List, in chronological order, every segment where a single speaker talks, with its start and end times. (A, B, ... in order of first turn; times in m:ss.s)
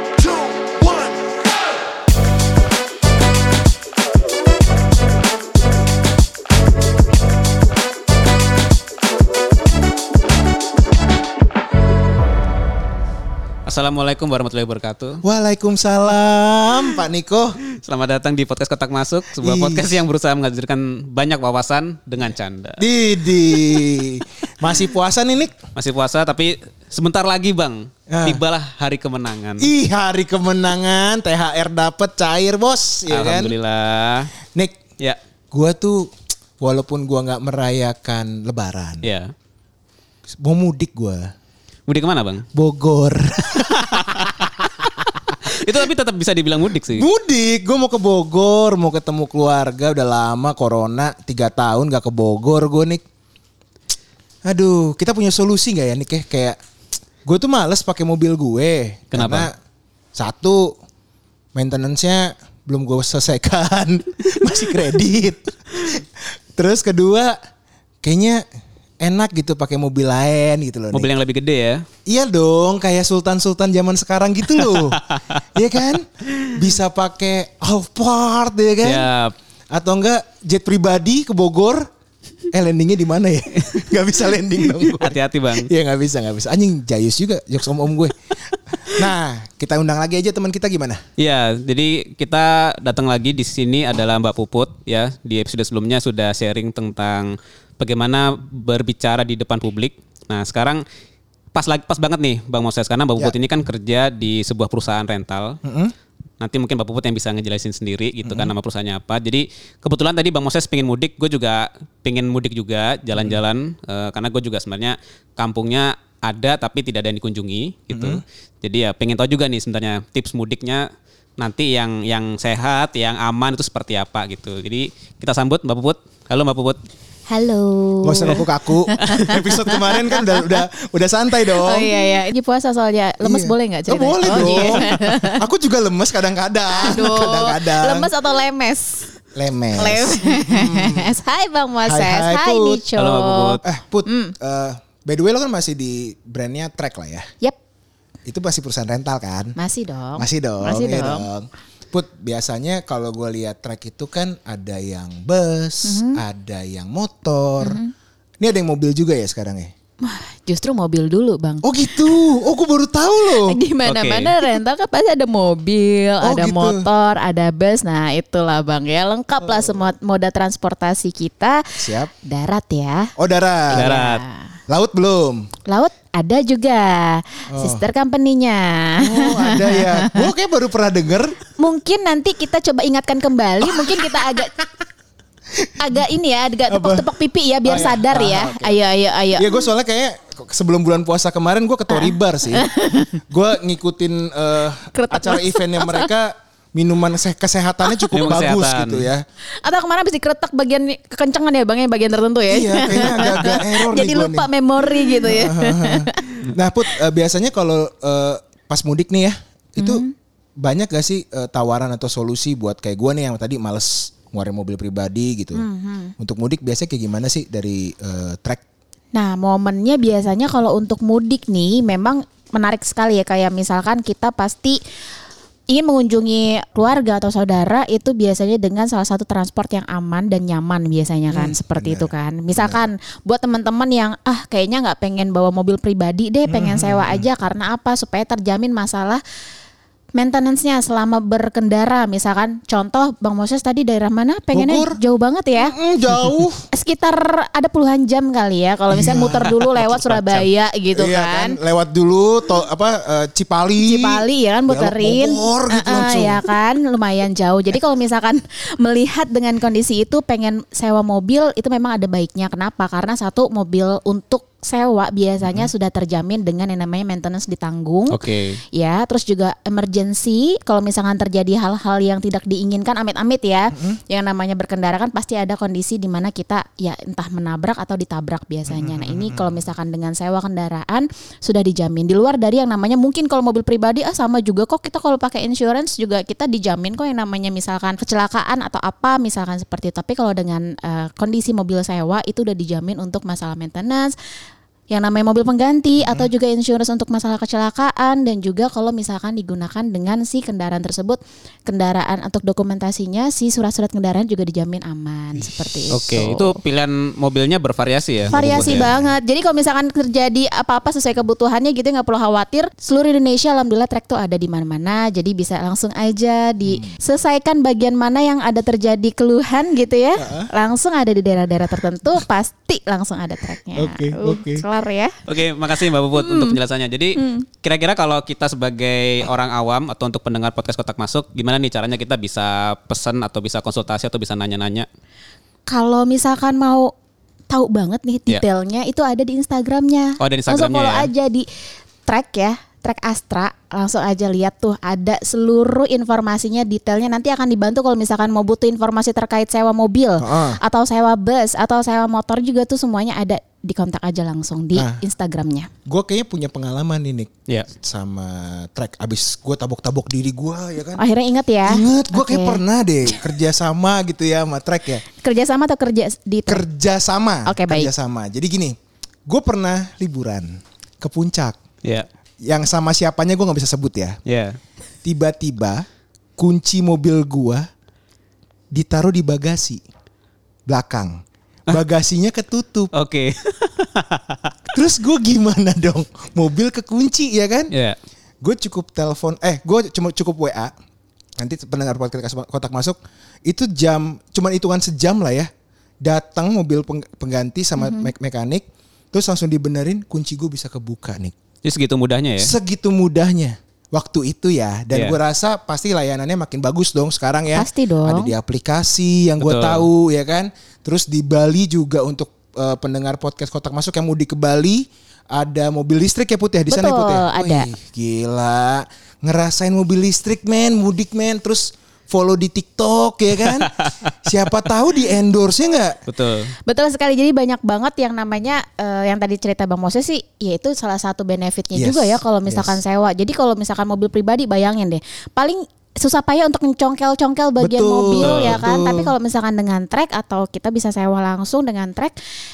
0:13.6-0:15.2 A
0:15.2-0:17.6 B
0:17.8-0:22.8 A
0:19.4-0:20.0 B
0:22.8-0:25.5 B
0:23.5-0:23.8 A
0:25.7-0:29.7 A
0:28.1-0:28.4 B
0:29.6-0:33.5 B
0:33.1-0:34.3 A
0:35.5-0:39.0 B
0:39.0-0:39.3 A
0:40.3-0:41.3 B
0:41.9-0:42.4 A
0:42.5-0:44.7 B
0:43.6-0:44.7 A
0:45.4-0:47.1 A
0:46.9-0:53.0 B
0:54.4-0:56.6 B
0:57.2-0:59.5 B
0:59.1-0:59.5 A
1:00.1-1:00.7 B
1:01.5-1:07.4 B
1:08.0-1:08.4 B
1:09.0-1:11.1 B
1:10.9-1:11.8 A
1:12.0-1:19.1 B
1:14.6-1:15.4 A
1:18.8-1:19.3 A
1:19.7-1:21.9 B
1:22.5-1:31.0 B
1:24.7-1:25.7 A
1:31.2-1:40.8 A
1:41.5-1:45.6 A
1:45.6-1:45.9 B
1:46.4-2:00.8 A
1:48.2-1:48.5 B
1:57.9-1:58.2 B
2:01.4-2:06.8 A
2:07.3-2:10.6 C
2:08.0-2:11.9 B
2:11.4-2:15.4 C
2:13.2-2:18.1 B
2:16.7-2:19.1 C
2:19.4-2:21.1 B
2:19.8-2:24.3 C
2:21.8-2:22.8 B
2:23.0-2:23.6 A
2:23.6-2:27.2 B
2:28.2-2:29.6 B
2:29.6-2:31.3 C
2:30.2-2:37.8 B
2:35.8-2:36.2 C
2:37.6-2:37.9 C
2:38.4-2:39.7 B
2:40.0-2:42.3 C
2:41.6-2:43.6 B
2:43.2-2:53.1 C
2:43.8-2:44.4 A
2:46.2-2:46.9 B
2:49.4-2:49.8 B
2:51.8-2:52.1 B
2:53.2-2:53.9 B
2:53.7-2:54.5 C
2:53.7-2:54.2 A
2:54.7-2:55.5 B
2:55.7-3:00.3 C
2:57.5-2:57.8 B
2:59.0-3:01.4 B
3:01.5-3:04.5 C
3:03.6-3:04.5 B
3:05.8-3:09.7 C
3:06.7-3:07.1 B
3:07.6-3:08.8 B
3:09.4-3:12.7 B
3:11.9-3:13.1 C
3:13.3-3:19.2 B
3:14.9-3:16.1 C
3:17.8-3:18.2 C
3:18.1-3:19.1 A
3:19.6-3:26.5 C
3:22.5-3:24.5 B
3:25.2-3:30.0 B
3:29.8-3:30.1 C
3:30.6-3:35.6 B
3:35.5-3:36.1 C
3:36.2-3:38.6 B
3:39.1-3:44.8 C
3:45.7-3:59.2 C
3:51.3-3:52.8 B
3:56.5-3:57.3 B
4:00.2-4:05.7 C
4:04.5-4:05.0 B
4:05.6-4:06.6 B
4:06.7-4:11.6 C
4:08.9-4:16.4 B
4:13.8-4:28.2 C
4:25.4-4:25.7 B
4:28.1-4:28.6 A
4:28.7-4:54.1 C
4:38.7-4:39.6 B
4:54.9-5:06.6 C
4:56.0-4:56.3 B
5:05.4-5:06.2 B
5:05.9-5:08.9 A
5:08.3-5:09.1 B
5:08.3-5:25.2 C
5:16.6-5:17.0 B
5:20.2-5:20.5 B
5:23.7-5:24.6 B
5:25.3-5:34.9 A
5:25.9-5:26.6 C
5:27.2-5:27.5 C
5:35.7-5:36.9 C
5:37.5-5:41.4 C
5:40.2-5:41.1 A
5:42.0-5:55.7 C
5:50.2-5:50.6 B
5:54.7-5:55.0 B
5:55.9-6:01.0 B
6:01.0-6:03.4 C
6:01.6-6:05.0 B
6:05.0-6:06.6 C
6:06.5-6:08.8 B
6:07.4-6:07.9 C
6:09.3-6:11.6 B
6:12.4-6:14.2 B
6:14.2-6:14.6 A
6:15.0-6:15.8 B
6:16.4-6:17.6 B
6:18.7-6:19.8 B
6:20.7-6:22.9 B
6:22.9-6:24.6 A
6:24.7-6:27.7 B
6:27.7-6:28.0 A
6:28.4-6:30.7 B
6:31.4-6:35.5 B
6:36.0-6:41.3 B
6:37.8-6:38.1 C
6:41.6-6:42.5 A
6:42.4-7:06.0 B
6:44.9-6:45.2 A
6:47.5-6:48.3 C
6:49.4-6:49.9 A
6:56.7-6:57.7 C
7:03.5-7:03.9 A
7:06.1-7:06.6 A
7:06.6-7:22.1 C
7:11.7-7:12.8 B
7:17.6-7:19.1 B
7:18.1-7:18.6 A